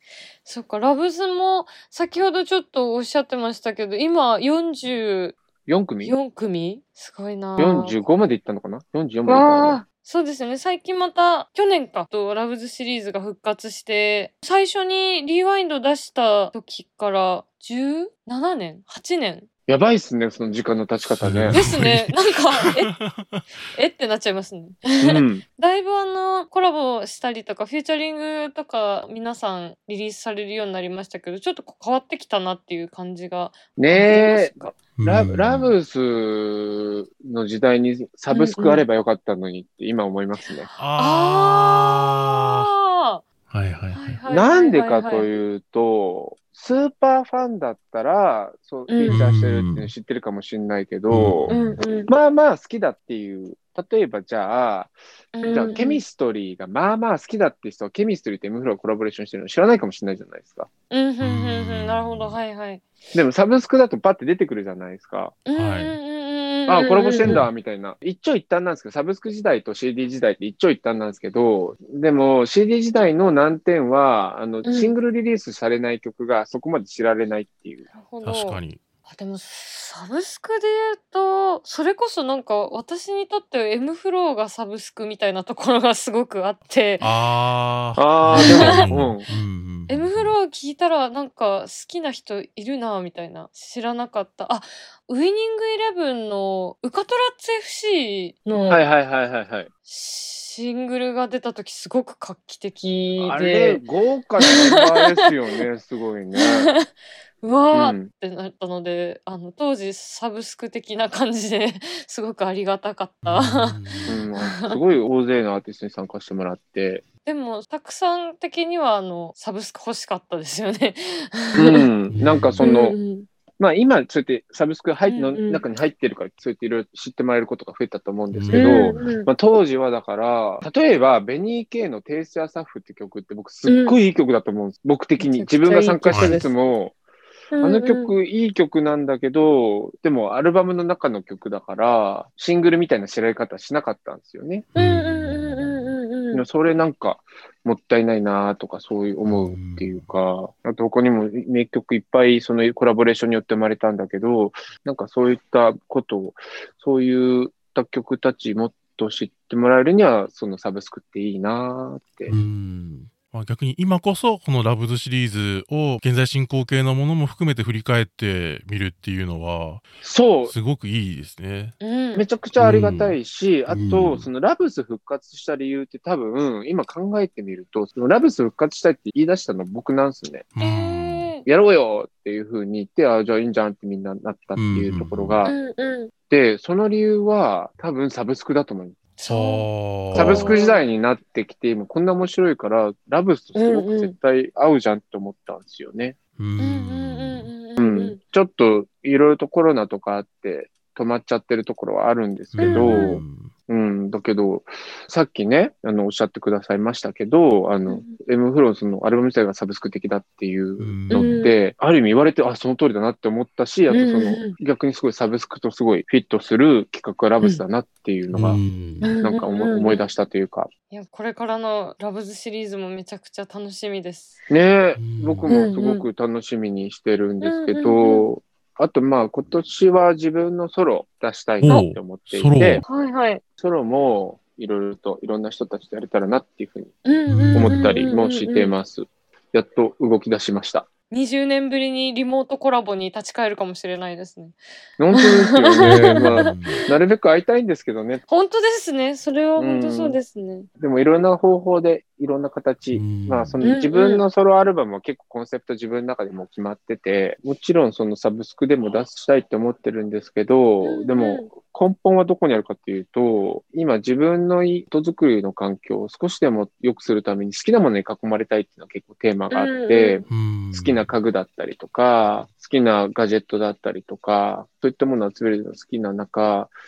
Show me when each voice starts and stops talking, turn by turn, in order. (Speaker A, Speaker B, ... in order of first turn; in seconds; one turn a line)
Speaker A: 0.4-5.4
Speaker B: 5.7-6.2
Speaker A: 6.0-8.0
Speaker B: 7.6-9.8
Speaker A: 9.3-19.5
Speaker B: 19.7-21.6
Speaker C: 21.0-23.4
Speaker A: 21.5-22.9
Speaker A: 23.7-34.7
Speaker B: 25.0-25.4
Speaker B: 33.8-40.7
Speaker C: 35.0-35.7
Speaker A: 38.3-38.8
Speaker C: 40.8-42.7
Speaker A: 41.0-43.2
Speaker C: 43.5-44.2
Speaker A: 43.9-45.3
Speaker B: 44.3-51.5
Speaker A: 48.9-49.2
Speaker C: 49.1-49.9
Speaker C: 51.1-51.8
Speaker A: 51.5-52.1
Speaker B: 52.1-54.9
Speaker A: 55.4-56.0
Speaker B: 55.5-60.7
Speaker A: 60.9-62.8
Speaker C: 61.2-62.4
Speaker B: 63.1-65.4
Speaker A: 65.5-67.5
Speaker C: 65.5-66.0
Speaker B: 66.7-77.8
Speaker A: 74.7-74.9
Speaker A: 77.9-87.1
Speaker C: 78.2-78.8
Speaker C: 87.0-90.4
Speaker B: 88.0-89.3
Speaker A: 88.3-88.9
Speaker A: 89.9-98.8
Speaker B: 98.6-99.7
Speaker A: 99.9-103.8
Speaker B: 103.2-106.7
Speaker A: 104.5-104.8
Speaker A: 106.4-106.8
Speaker A: 107.4-114.6
Speaker B: 107.7-108.1
Speaker C: 113.2-114.2
Speaker B: 114.1-117.0
Speaker A: 117.3-121.9
Speaker B: 121.5-123.0
Speaker C: 122.1-122.7
Speaker A: 122.6-123.3
Speaker B: 123.6-136.9
Speaker A: 125.1-125.6
Speaker C: 128.3-129.1
Speaker A: 128.5-129.3
Speaker A: 133.7-134.0
Speaker A: 135.2-136.5
Speaker C: 136.1-136.4
Speaker A: 137.5-138.1
Speaker B: 137.6-144.7
Speaker C: 144.7-146.0
Speaker A: 144.8-146.4
Speaker B: 146.3-162.3
Speaker C: 149.3-150.1
Speaker C: 162.3-169.8
Speaker B: 170.0-170.5
Speaker C: 170.4-171.8
Speaker A: 171.8-172.2
Speaker B: 172.2-180.5
Speaker C: 172.6-173.2
Speaker C: 173.7-174.3
Speaker C: 180.6-181.3
Speaker A: 180.6-181.4
Speaker B: 181.4-185.6
Speaker C: 184.6-185.4
Speaker A: 185.4-186.1
Speaker B: 186.3-189.0
Speaker A: 189.2-190.8
Speaker C: 189.3-190.6
Speaker B: 190.1-196.2
Speaker A: 193.6-194.1
Speaker C: 196.4-197.5
Speaker A: 196.6-198.2
Speaker B: 197.8-218.6
Speaker C: 202.5-203.5
Speaker A: 202.6-203.1
Speaker A: 207.9-208.2
Speaker C: 210.8-211.4
Speaker A: 211.1-211.5
Speaker A: 213.9-214.6
Speaker C: 218.3-219.1
Speaker A: 219.0-220.1
Speaker B: 219.2-220.7
Speaker A: 220.9-224.4
Speaker B: 224.5-232.8
Speaker C: 225.0-225.6
Speaker A: 225.5-226.1
Speaker A: 227.4-228.3
Speaker C: 231.6-232.8
Speaker A: 232.9-233.4
Speaker B: 233.6-236.9
Speaker A: 237.0-238.8
Speaker C: 237.3-237.8
Speaker B: 237.5-240.9
Speaker A: 241.1-244.6
Speaker B: 245.0-248.2
Speaker A: 245.1-246.2
Speaker C: 245.9-246.8
Speaker A: 248.3-250.7
Speaker B: 249.6-250.2
Speaker B: 250.8-276.7
Speaker C: 252.9-253.6
Speaker A: 253.6-254.2
Speaker A: 260.8-261.5
Speaker A: 269.5-270.2
Speaker C: 270.3-271.1